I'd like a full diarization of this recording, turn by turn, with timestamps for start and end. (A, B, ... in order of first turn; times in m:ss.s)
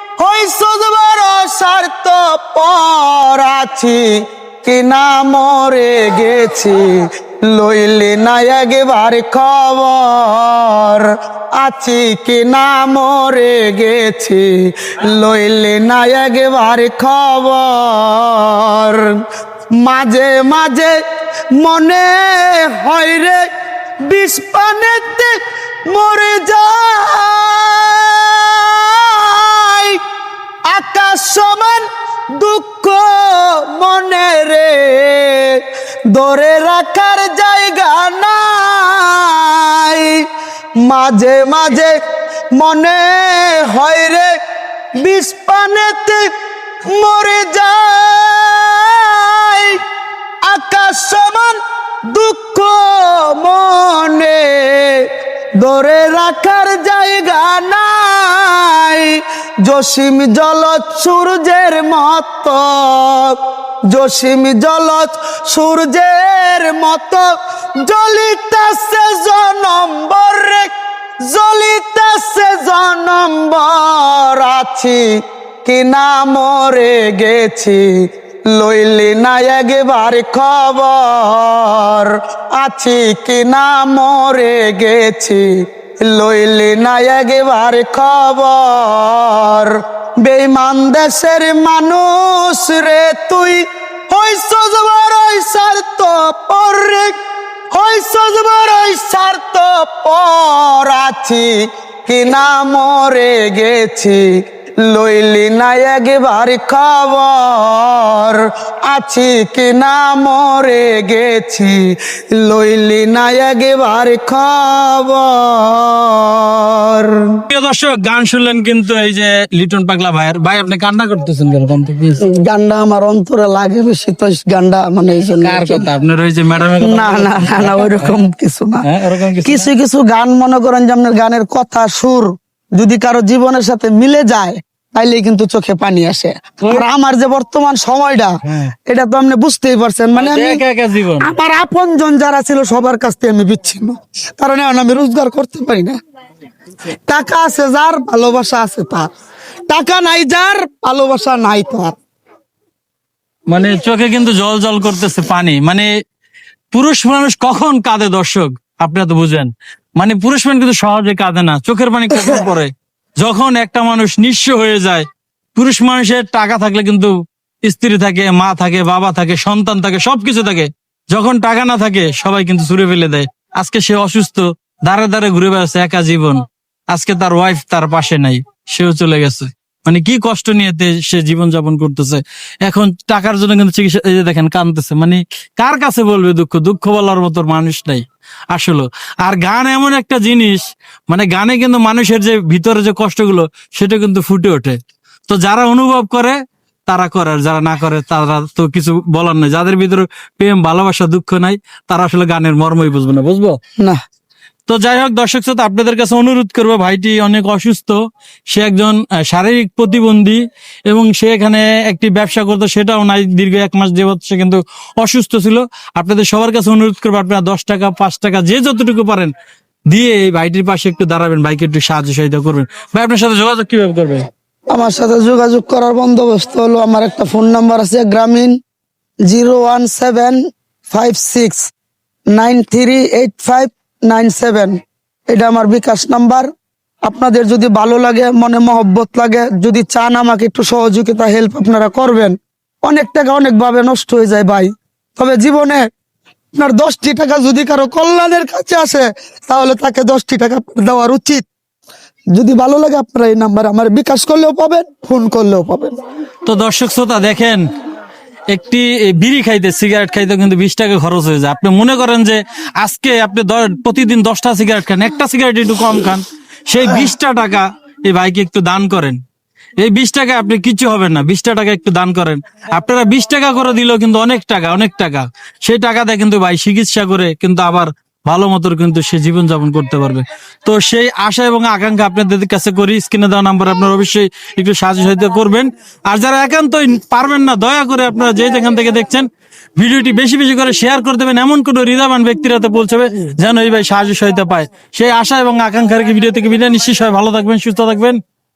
0:00.2-0:04.1 A
0:04.6-0:19.1 A
0:19.8-0:21.0 A
0:21.5-0:23.5 A
0:24.0-0:30.0 A
0:30.7-0:40.2 A
0:40.8-0:42.0 A
0:42.6-0:44.3 A
0:45.0-0:46.3 A
0:46.9-0:49.8 A
0:50.4-1:03.4 A
1:03.9-1:07.3 A
1:07.8-1:10.7 A
1:11.2-1:15.1 A
1:15.6-1:17.9 A
1:18.5-1:25.5 A
1:26.0-1:37.2 A
1:37.7-1:57.4 A
1:57.5-2:02.2 B
2:02.2-2:05.9 A
2:05.4-2:08.2 B
2:06.8-2:08.8 A
2:08.9-2:09.7 B
2:09.4-2:18.4 A
2:18.9-2:20.6 A
2:20.2-2:21.3 B
2:21.2-2:26.0 A
2:27.1-2:29.1 A
2:29.7-2:32.0 A
2:33.5-2:35.9 B
2:36.7-2:47.1 B
2:47.6-3:14.8 B
3:15.3-3:16.4 B
3:16.9-3:23.6 B
3:24.7-3:28.0 B
3:28.5-3:39.3 B
3:39.9-3:44.3 B
3:44.7-3:48.6 A
3:49.3-3:51.7 A
3:52.3-3:54.8 A
3:55.3-3:56.5 A
3:57.0-4:05.9 A
4:06.6-4:11.5 A
4:12.3-4:16.0 A
4:16.5-4:17.7 B
4:18.5-4:29.2 B
4:29.8-4:58.2 B